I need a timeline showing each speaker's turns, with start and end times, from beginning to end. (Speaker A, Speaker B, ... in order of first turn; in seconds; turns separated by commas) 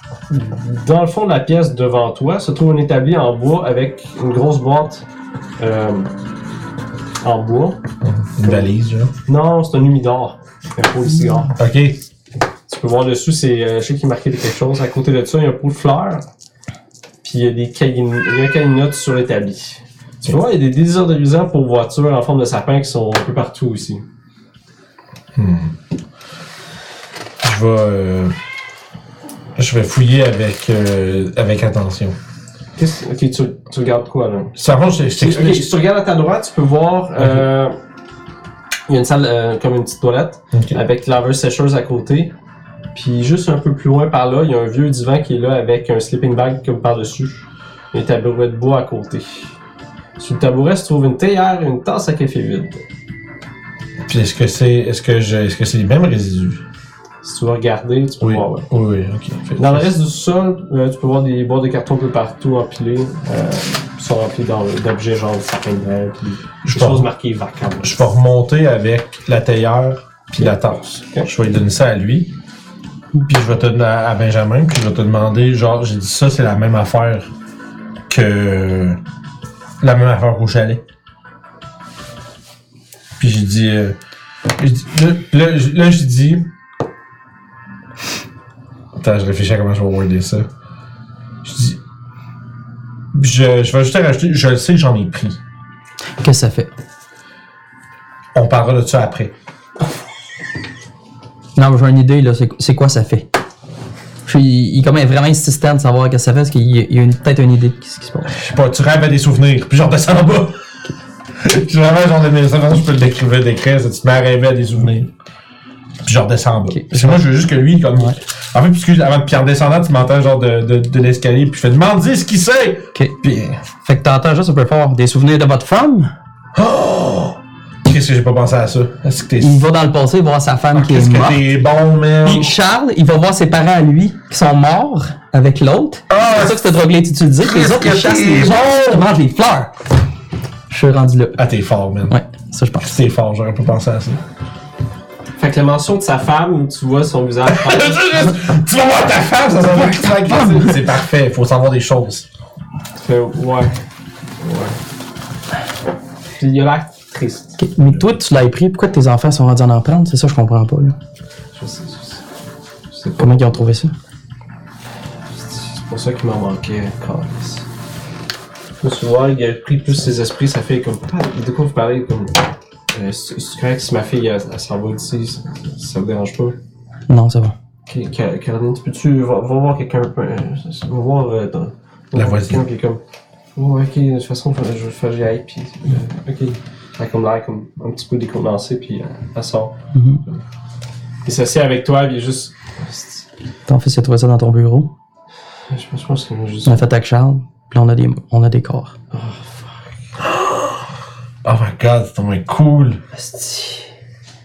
Speaker A: 0.3-5.0, Speaker A: 5.6-6.1, Speaker A: 7.2-7.8, Speaker B: 8.0-9.1, Speaker A: 8.4-8.7, Speaker A: 9.2-11.5, Speaker B: 11.6-12.0, Speaker A: 12.7-16.2, Speaker A: 17.2-24.0, Speaker B: 25.4-25.7, Speaker B: 27.4-28.3, Speaker B: 29.6-32.2, Speaker A: 32.8-34.6, Speaker B: 34.6-35.7, Speaker A: 35.1-37.8, Speaker B: 37.2-37.5, Speaker A: 38.9-42.3, Speaker B: 40.5-40.8, Speaker A: 43.0-49.5, Speaker A: 50.2-52.8, Speaker B: 54.1-56.6, Speaker A: 57.2-58.7, Speaker B: 58.2-59.9, Speaker A: 59.6-68.0, Speaker B: 66.6-67.1, Speaker B: 67.8-72.3, Speaker B: 73.2-77.3, Speaker B: 78.1-79.0, Speaker B: 79.8-80.8, Speaker B: 83.2-84.0, Speaker B: 84.6-86.5, Speaker B: 89.0-90.5, Speaker B: 91.4-91.8, Speaker B: 93.1-95.4, Speaker C: 96.2-96.7, Speaker B: 98.3-99.3, Speaker C: 101.6-103.3, Speaker C: 104.2-108.3, Speaker B: 108.3-110.5, Speaker B: 111.4-115.1, Speaker B: 116.0-123.6, Speaker C: 116.7-117.3, Speaker C: 123.8-126.1, Speaker B: 126.5-129.6, Speaker C: 129.4-131.4, Speaker B: 130.7-132.6, Speaker C: 132.2-139.7, Speaker B: 136.1-136.7, Speaker B: 137.4-139.0, Speaker C: 140.7-141.4, Speaker B: 141.4-142.2, Speaker C: 142.1-142.9, Speaker B: 142.8-144.2, Speaker A: 145.4-148.1, Speaker B: 147.5-152.3, Speaker A: 153.0-153.7, Speaker A: 154.4-154.8, Speaker A: 156.4-157.6, Speaker C: 157.6-161.0, Speaker A: 161.6-162.2, Speaker A: 162.9-163.6, Speaker C: 163.2-163.9, Speaker A: 165.4-167.7, Speaker A: 168.8-172.4, Speaker A: 172.9-176.6, Speaker C: 177.1-177.6, Speaker A: 177.9-183.0, Speaker B: 182.2-182.6, Speaker A: 183.6-189.8, Speaker C: 189.9-190.2, Speaker A: 191.3-193.2, Speaker C: 193.7-194.9, Speaker A: 195.7-196.9, Speaker C: 196.7-198.9, Speaker A: 199.1-199.8, Speaker B: 200.2-200.8, Speaker B: 201.4-203.0, Speaker A: 203.1-203.9